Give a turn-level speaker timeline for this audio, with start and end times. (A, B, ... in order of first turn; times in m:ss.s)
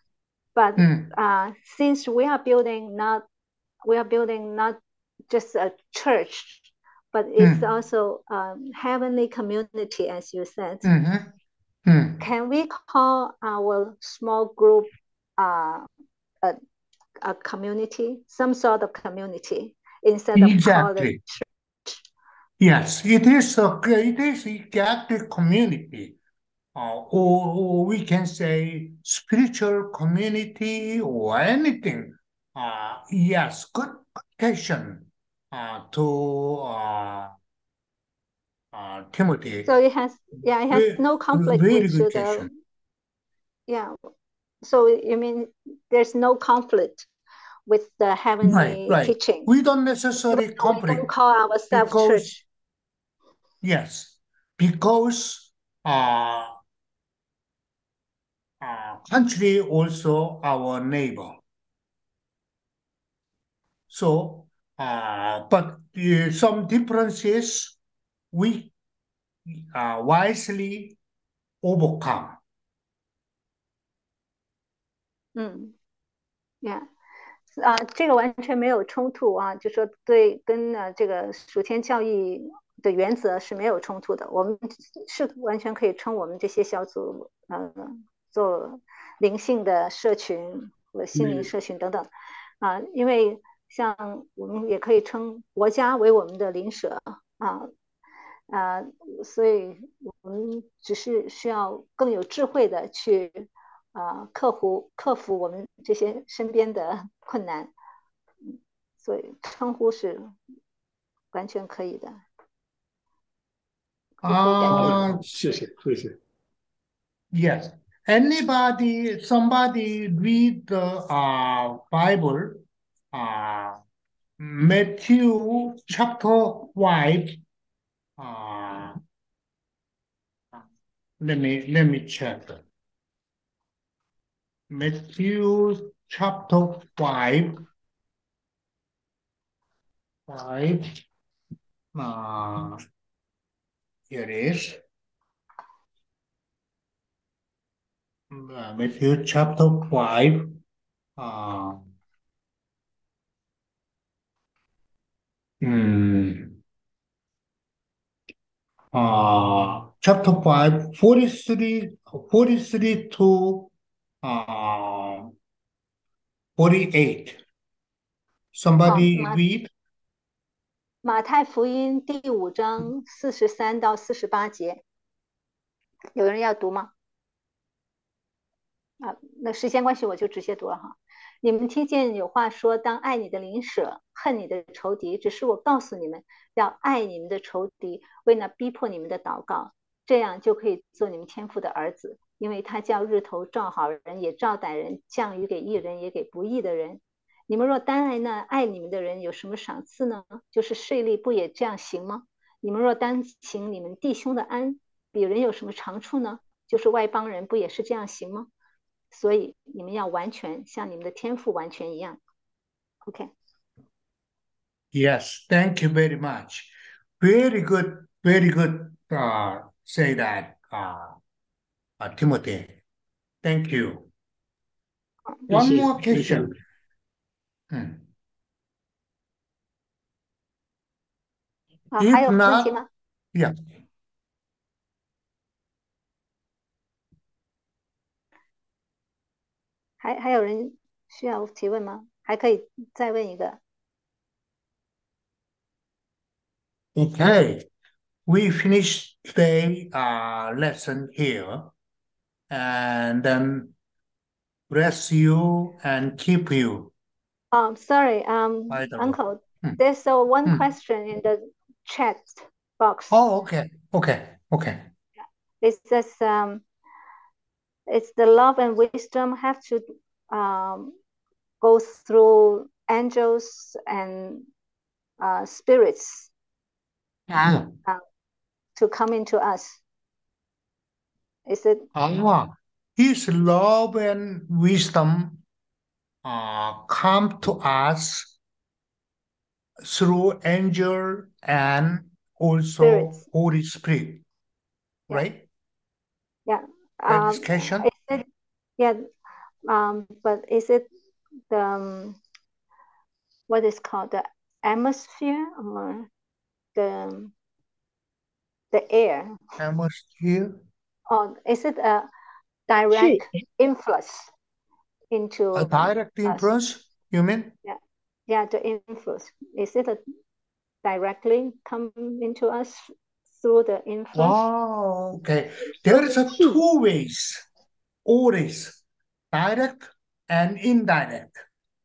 0:00.6-0:03.2 A
0:00.8-0:01.1 B
0:03.8-0:10.9 A
0:07.4-0:07.6 B
0:10.8-0:11.3 B
0:11.8-0:12.2 B
0:12.2-0:15.9 A
0:17.2-0:22.0 A
0:20.3-0:21.2 B
0:22.6-0:26.2 B
0:26.7-0:37.3 B
0:38.7-0:39.7 B
0:39.6-0:42.5 A
0:40.7-0:42.5 B
0:43.7-0:44.0 A
0:44.6-0:47.1 A
0:47.7-0:49.5 A
0:48.4-0:51.1 B
0:50.3-0:52.4 A
0:51.7-0:52.4 B
0:53.6-0:56.6 B
0:58.6-1:01.4 B
1:03.9-1:07.8 B
1:08.3-1:08.7 B
1:09.5-1:11.0 B
1:11.6-1:12.4 B
1:15.3-1:15.7 A
1:16.6-1:16.9 A
1:17.6-1:32.1 A
1:31.2-1:31.5 C
1:32.6-1:37.7 A
1:38.5-1:47.7 A
1:48.4-1:50.4 A
1:51.3-1:52.2 A
1:54.2-1:55.0 A
1:54.2-1:55.3 B
1:54.7-1:56.2 C
1:57.3-2:03.8 B
2:04.4-2:07.4 B
2:08.2-2:09.0 B
2:11.2-2:12.6 B
2:14.7-2:17.6 B
2:20.3-2:21.0 B
2:21.9-2:22.8 B
2:24.1-2:24.8 B
2:28.3-2:30.6 B
2:31.2-2:31.8 B
2:35.6-2:36.6 B
2:38.9-2:43.7 B
2:44.2-2:45.3 B
2:46.6-2:47.4 B
2:48.5-2:49.7 B
2:48.8-2:49.4 A
2:51.0-2:54.8 A
2:56.1-2:56.9 A
2:59.0-3:28.5 A
3:29.1-3:32.2 A
3:33.0-3:33.3 A
3:34.9-3:41.2 B
3:42.0-3:42.8 B
3:43.4-3:44.1 B
3:45.5-3:46.5 C
3:45.5-3:46.5 B
3:47.7-3:48.0 B
3:51.9-3:52.9 A
3:52.0-3:52.7 B
4:00.0-4:03.6 A
4:06.9-4:07.7 B
4:08.3-4:11.7 B
4:12.5-4:13.7 B
4:14.7-4:16.9 B
4:17.5-4:23.2 A
4:18.7-4:19.8 B
4:23.1-4:24.8 B
4:25.6-4:26.6 A
4:27.9-4:30.9 A
4:31.6-4:34.5 A
4:35.2-4:36.3 A
4:37.3-4:37.7 B
4:38.8-4:39.8 A
4:41.5-4:41.9 A
4:41.9-4:45.4 B
4:46.2-4:48.3 B
4:49.8-4:54.2 B
4:52.8-4:53.2 A
4:55.1-4:55.4 B
4:56.4-4:58.2 A
4:57.1-4:57.8 B
4:58.8-4:59.0 A
4:59.7-5:00.9 A
5:01.5-5:02.2 A
5:03.5-5:06.1 A
5:06.7-5:07.3 A
5:08.7-5:09.4 A
5:09.6-5:10.6 B
5:11.1-5:12.1 A
5:12.7-5:14.3 A
5:15.1-5:16.5 A
5:15.5-5:17.5 B
5:17.6-5:20.0 A
5:20.8-5:24.4 A
5:24.1-5:27.4 B
5:26.2-5:26.5 A
5:28.0-5:31.4 B